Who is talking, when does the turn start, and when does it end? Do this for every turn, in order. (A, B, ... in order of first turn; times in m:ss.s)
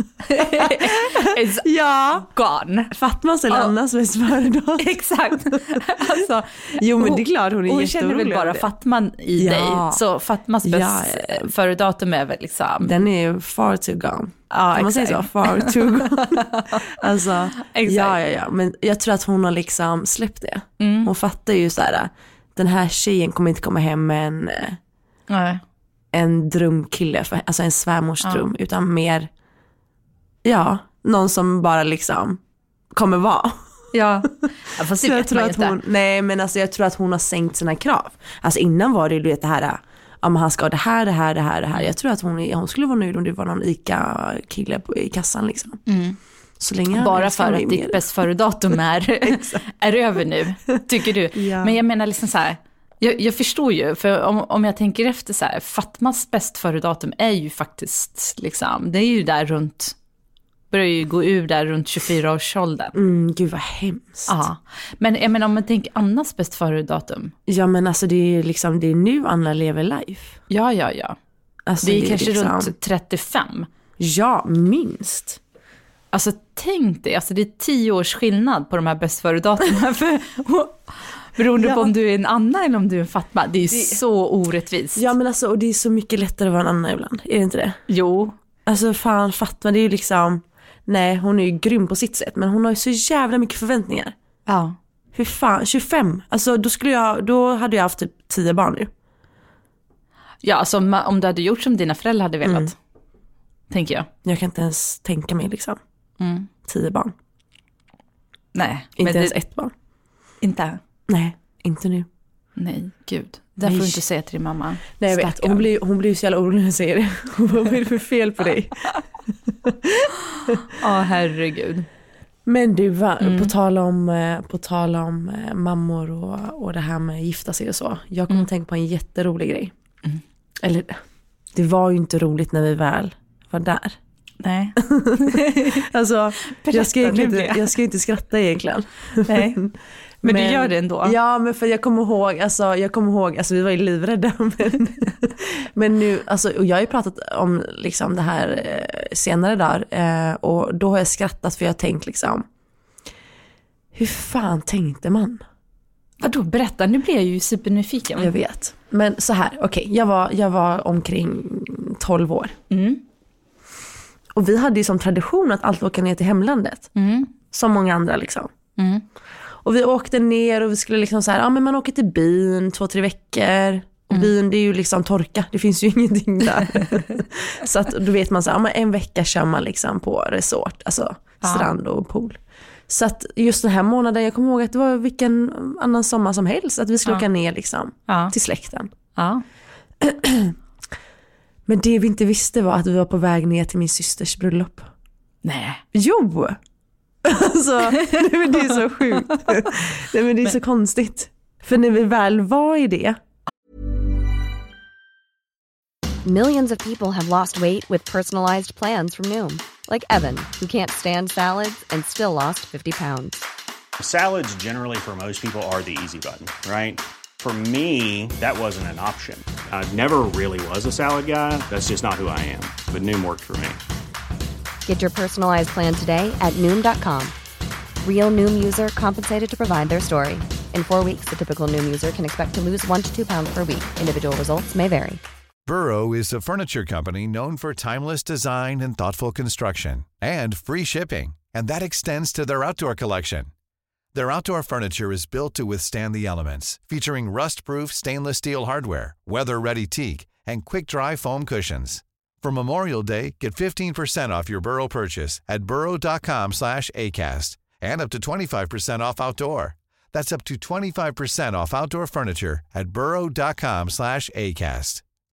0:00.2-0:02.9 A
0:01.6-0:02.3 B
0:02.9-0:05.8 B
0:04.8-0:13.0 A
0:06.8-0:08.7 B
0:09.4-0:10.0 B
0:10.6-0:11.5 B
0:12.8-0:24.8 B
0:14.5-0:16.9 A
0:17.6-0:18.2 A
0:20.8-0:21.1 A
0:25.3-0:25.6 A
0:26.1-0:29.3 B
0:28.2-0:28.5 A
0:30.4-0:32.4 B
0:32.9-0:33.7 B
0:33.9-0:35.8 A
0:34.3-0:45.8 B
0:45.9-0:46.2 A
0:46.6-0:48.1 B
0:46.9-1:00.0 A
0:49.2-0:49.6 B
0:51.3-0:51.8 B
1:00.7-1:02.9 A
1:02.9-1:04.4 B
1:04.3-1:07.3 A
1:07.5-1:10.4 B
1:10.5-1:11.2 A
1:11.7-1:12.7 B
1:11.8-1:13.7 A
1:14.0-1:15.4 B
1:16.1-1:25.0 A
1:21.6-1:21.9 B
1:23.7-1:24.0 B
1:25.0-1:27.8 B
1:27.9-1:28.4 A
1:28.7-1:34.2 B
1:34.5-1:34.8 A
1:35.1-1:38.9 B
1:40.4-1:42.8 A
1:42.4-1:42.7 B
1:43.7-1:44.1 A
1:44.2-1:45.8 B
1:46.2-1:46.5 A
1:46.7-1:47.1 B
1:48.5-1:49.4 A
1:49.0-1:49.7 B
1:50.4-1:50.8 A
1:51.1-1:52.1 B
1:52.6-1:55.7 A
1:53.6-1:54.0 B
1:55.0-1:58.9 B
1:59.5-2:00.6 B
2:00.7-2:01.9 A
2:02.5-2:09.7 B
2:03.2-2:03.5 A
2:10.6-2:11.0 B
2:11.5-2:14.0 B
2:14.4-2:15.9 A
2:14.8-2:32.5 B
2:16.5-2:17.7 A
2:19.2-2:19.6 A
2:20.2-2:21.2 A
2:33.9-2:35.4 B
2:36.2-2:38.3 A
2:38.2-2:42.6 B
2:42.7-2:43.0 A
2:44.3-2:46.9 B
2:47.0-2:47.3 A
2:47.5-2:48.5 B
2:48.8-2:49.0 A
2:49.6-3:08.9 B
3:01.4-3:01.7 A
3:08.1-3:08.3 A
3:09.2-3:09.4 A
3:10.0-3:10.6 B
3:11.7-3:14.9 B
3:15.4-3:15.8 A
3:15.9-3:16.6 B
3:17.2-3:23.2 B
3:18.0-3:19.6 A
3:26.2-3:33.4 C
3:34.0-3:43.8 D
3:44.9-3:47.4 C
3:48.0-3:55.2 C
3:55.7-4:03.5 E
4:04.1-4:25.0 E